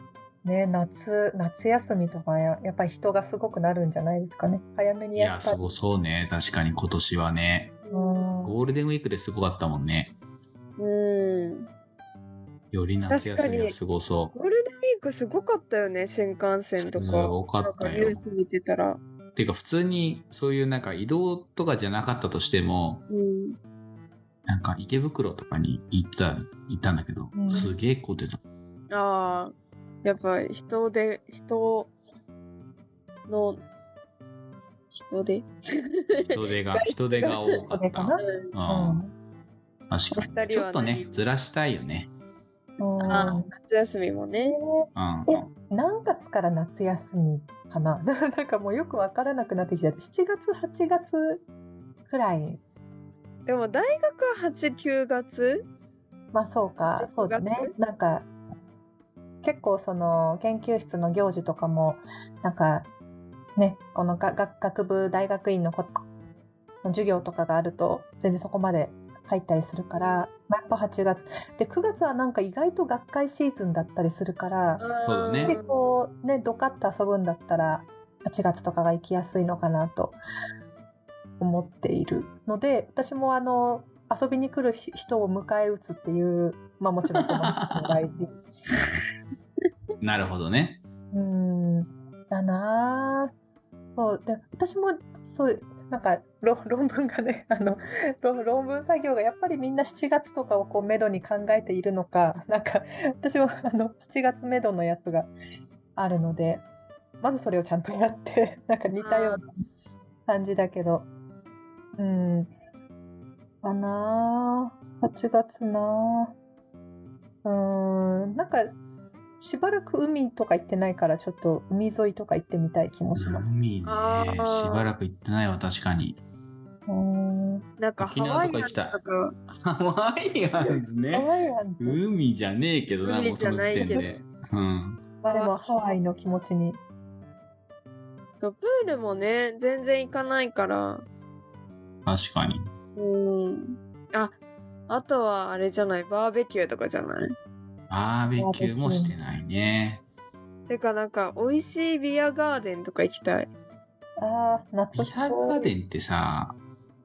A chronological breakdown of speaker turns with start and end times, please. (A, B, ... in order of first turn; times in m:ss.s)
0:00.4-0:05.6 A
0:05.2-0:07.8 B
0:07.8-0:08.3 C
0:07.9-0:08.6 A
0:08.4-0:10.1 B
0:10.8-0:11.7 C
0:12.7-0:14.3 B
0:13.1-0:13.8 C
0:14.3-0:19.0 C
0:16.9-0:18.2 B
0:19.4-0:23.0 B
0:23.1-0:23.6 C
0:24.5-0:28.4 B
0:27.3-0:27.7 A
0:28.9-0:29.5 C
0:30.0-0:31.9 C
0:33.3-0:33.6 C
0:34.9-0:37.6 C
0:36.3-0:39.0 B
0:37.8-0:39.1 A
0:38.2-0:38.5 C
0:39.9-0:42.1 B
0:40.1-0:41.2 C
0:42.8-0:43.5 A
0:43.0-0:43.4 B
0:43.1-0:44.6 C
0:44.5-0:51.4 A
0:45.0-0:45.5 B
0:52.1-0:52.6 A
0:53.5-0:55.7 C
0:56.3-0:58.3 A
0:56.8-0:57.7 C
0:59.4-1:02.9 A
1:03.6-1:05.9 A
1:06.8-1:14.8 A
1:10.0-1:10.2 C
1:14.8-1:15.8 C
1:15.0-1:15.5 B
1:15.5-1:20.2 A
1:21.4-1:28.3 A
1:27.2-1:28.0 B
1:30.0-1:30.8 B
1:31.1-1:33.3 A
1:33.9-1:45.3 A
1:46.0-1:46.6 A
1:47.2-1:49.5 A
1:49.0-1:49.4 C
1:50.3-1:51.1 A
1:52.0-1:52.5 A
1:53.6-1:56.4 A
1:57.4-1:58.8 A
1:59.4-2:03.5 A
2:03.2-2:06.2 B
2:03.8-2:04.9 C
2:06.9-2:07.7 A
2:07.8-2:09.4 C
2:08.0-2:09.0 B
2:09.6-2:15.0 B
2:11.1-2:12.0 A
2:13.0-2:14.1 C
2:15.2-2:15.5 C
2:15.3-2:16.8 A
2:18.4-2:21.0 C
2:22.1-2:22.7 B
2:23.0-2:24.4 C
2:24.9-2:27.4 C
2:27.9-2:30.0 B
2:28.4-2:29.2 A
2:30.7-2:33.5 C
2:34.2-2:35.7 A
2:34.9-2:36.6 B